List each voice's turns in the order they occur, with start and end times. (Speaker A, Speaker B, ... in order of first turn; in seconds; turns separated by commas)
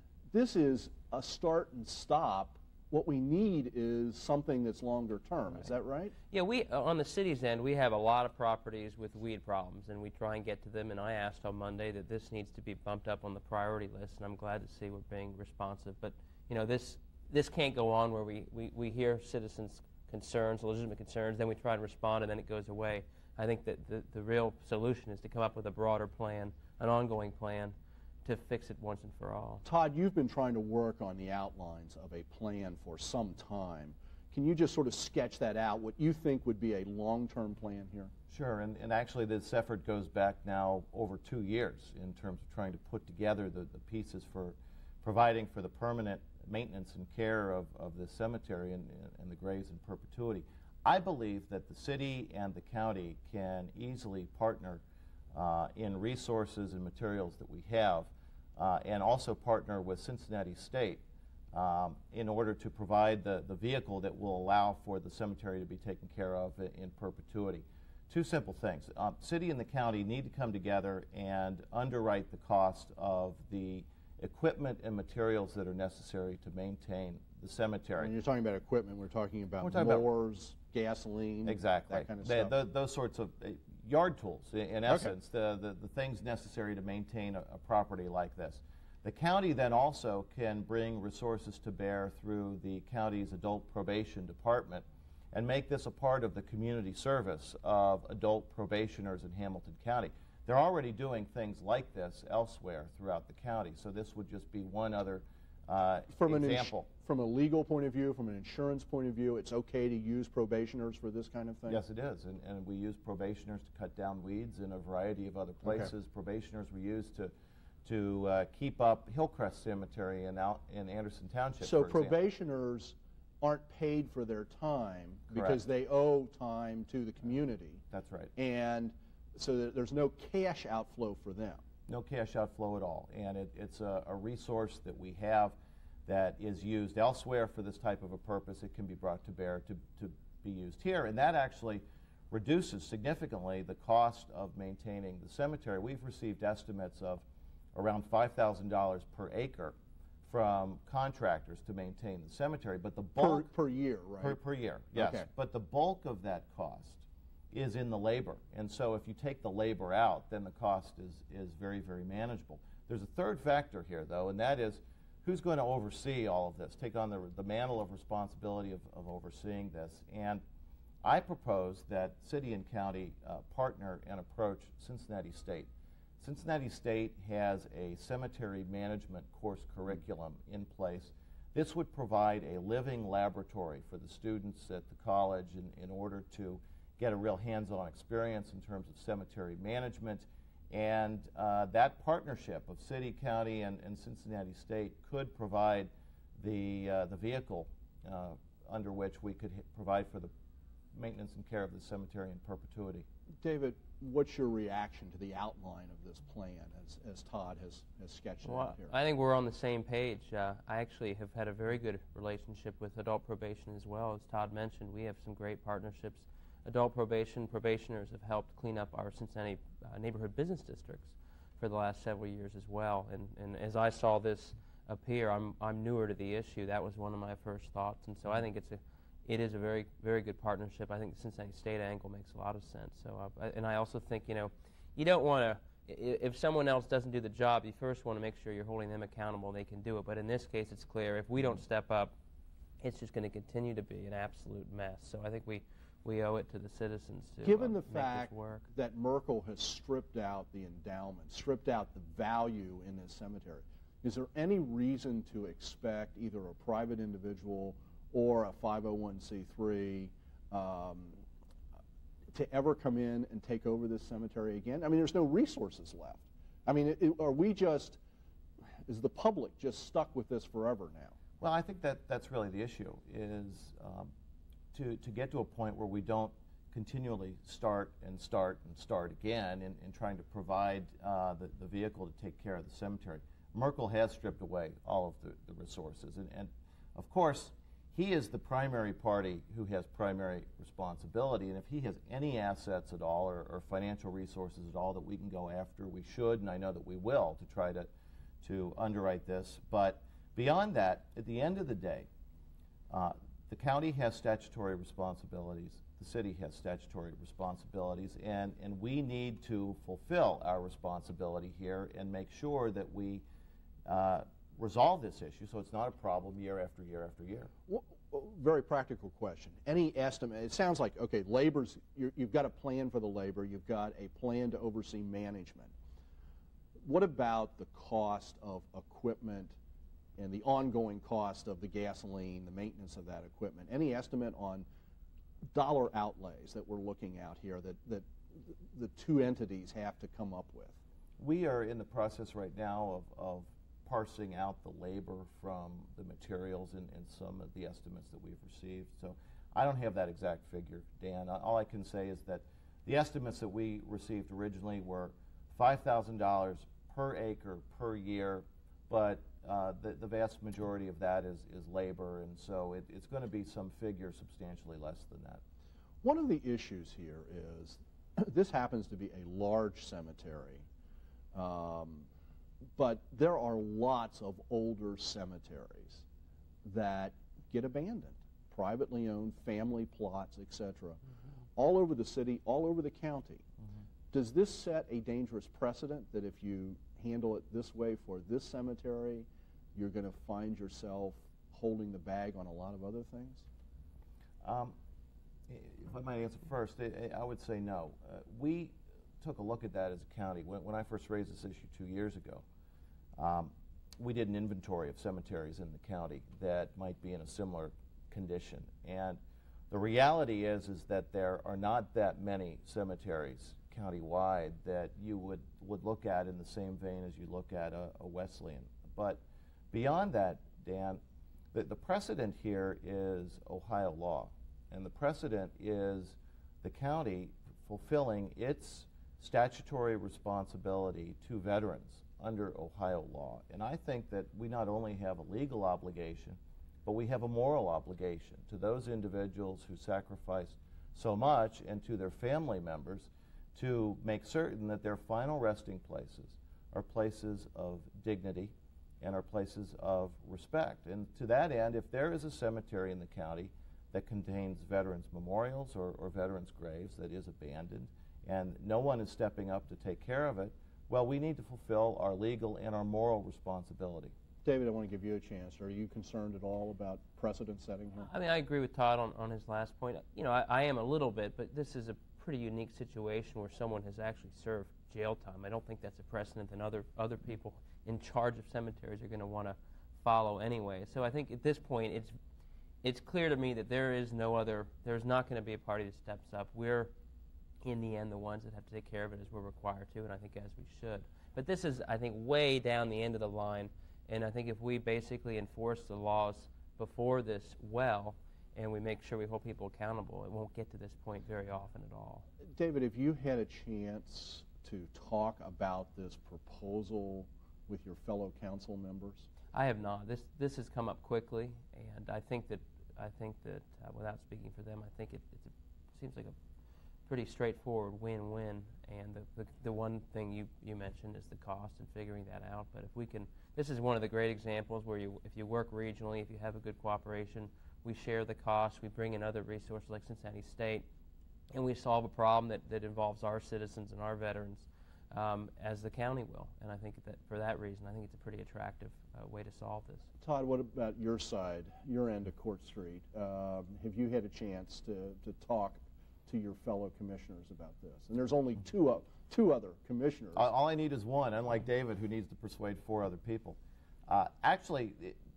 Speaker A: 0.3-6.1, Speaker B: 6.3-29.6, Speaker A: 29.6-38.1, Speaker C: 38.3-54.8, Speaker C: 55.3-78.1, Speaker A: 78.0-82.5, Speaker C: 79.6-80.1, Speaker C: 81.5-106.9, Speaker A: 84.9-85.1, Speaker A: 106.1-111.8, Speaker C: 111.7-117.3, Speaker A: 115.7-115.9, Speaker C: 117.8-122.2, Speaker A: 121.6-127.8, Speaker C: 125.3-125.6, Speaker C: 127.9-128.3, Speaker A: 128.4-131.6, Speaker C: 131.9-153.5, Speaker A: 153.2-154.4, Speaker C: 154.2-170.4, Speaker A: 154.9-155.3, Speaker C: 171.0-200.3, Speaker C: 200.9-203.1, Speaker A: 203.4-208.9, Speaker B: 208.4-242.2, Speaker B: 242.8-248.7, Speaker A: 247.4-261.2, Speaker A: 262.3-268.0, Speaker A: 268.9-271.2, Speaker C: 271.4-274.1, Speaker C: 274.7-297.9, Speaker C: 298.4-302.1, Speaker C: 302.9-313.2, Speaker C: 313.9-317.5, Speaker A: 317.7-325.7, Speaker A: 326.8-329.6, Speaker A: 330.2-334.7, Speaker A: 335.5-340.8, Speaker C: 341.2-365.4, Speaker A: 366.0-370.6, Speaker A: 371.3-372.1, Speaker A: 372.8-376.0, Speaker A: 376.6-381.0, Speaker A: 381.6-383.4, Speaker A: 384.1-393.5, Speaker C: 394.4-394.8, Speaker C: 395.5-402.4, Speaker C: 403.2-421.0, Speaker C: 421.5-464.1, Speaker A: 464.4-468.1, Speaker B: 468.0-482.2, Speaker B: 482.8-486.9, Speaker B: 487.6-502.3, Speaker A: 502.5-509.3, Speaker B: 509.5-516.4, Speaker B: 517.1-530.9, Speaker B: 531.5-540.1, Speaker A: 540.2-550.5, Speaker C: 550.4-555.2